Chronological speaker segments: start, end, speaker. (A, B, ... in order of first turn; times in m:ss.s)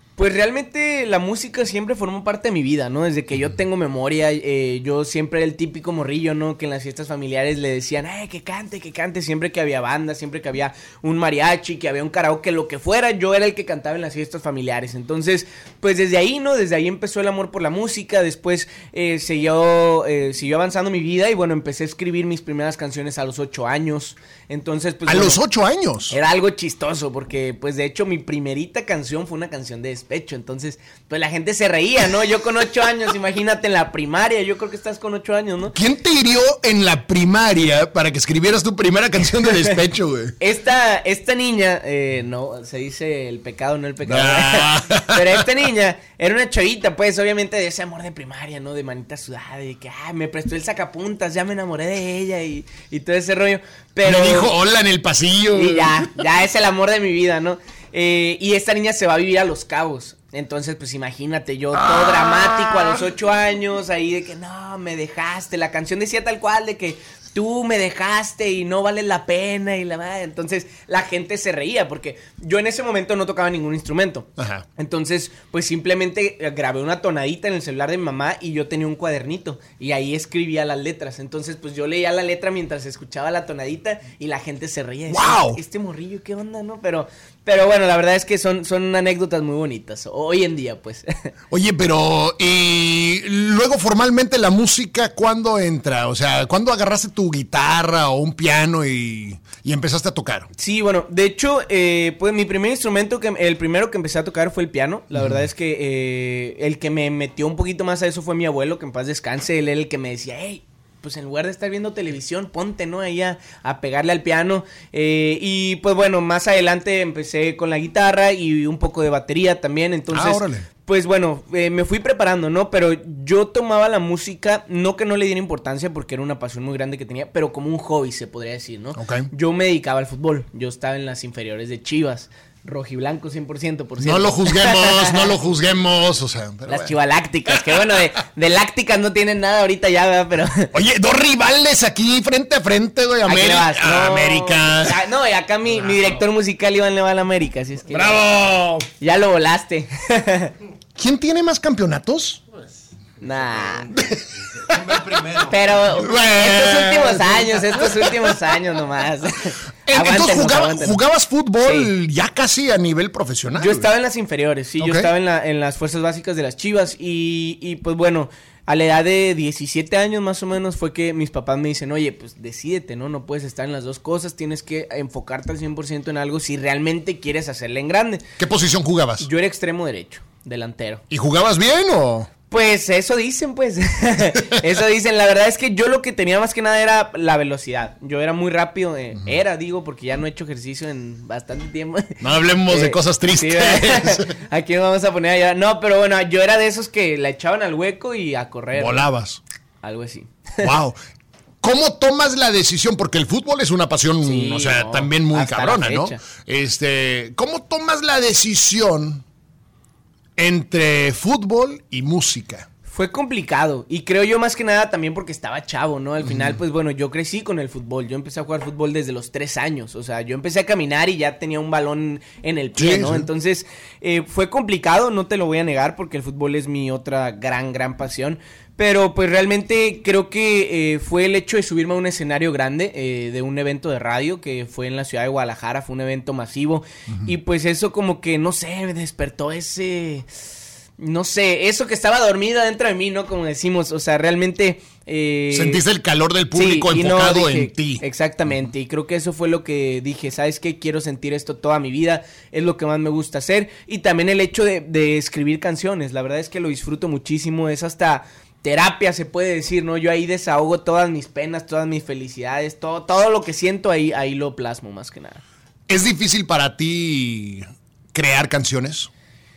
0:00.2-0:25.4 A
0:25.1-0:26.2 B
0:26.1-0:35.8 A
0:35.8-0:40.4 B
0:39.5-0:39.8 A
0:40.4-0:54.5 A
0:44.0-0:45.4 B
0:54.0-0:56.1 B
0:55.5-1:31.1 A
1:01.8-1:03.0 B
1:14.4-1:14.6 B
1:25.1-1:25.6 B
1:31.5-1:40.5 B
1:40.6-2:15.3 A
2:00.1-2:00.7 B
2:09.0-2:09.3 B
2:14.0-2:16.9 B
2:16.7-2:20.7 A
2:17.5-2:18.0 B
2:20.7-2:25.0 B
2:23.3-2:28.3 A
2:27.9-2:28.9 B
2:29.0-2:30.5 A
2:31.0-2:32.4 B
2:33.2-2:33.9 A
2:34.0-2:38.3 B
2:35.4-2:41.0 A
2:39.9-2:43.9 B
2:41.6-2:41.9 A
2:43.6-2:58.2 A
2:44.8-2:45.1 B
2:58.4-2:59.3 B
2:59.2-3:01.0 A
3:01.1-3:02.3 B
3:02.5-3:12.2 A
3:12.2-3:14.4 B
3:12.7-3:19.1 A
3:18.7-3:19.4 B
3:19.8-3:20.7 A
3:20.6-3:21.0 B
3:21.6-3:29.2 B
3:24.2-3:26.2 A
3:30.4-3:32.7 B
3:32.9-4:00.3 A
3:42.8-3:43.3 B
4:01.0-4:05.8 A
4:05.5-4:08.0 B
4:06.5-4:25.4 A
4:25.9-4:29.1 B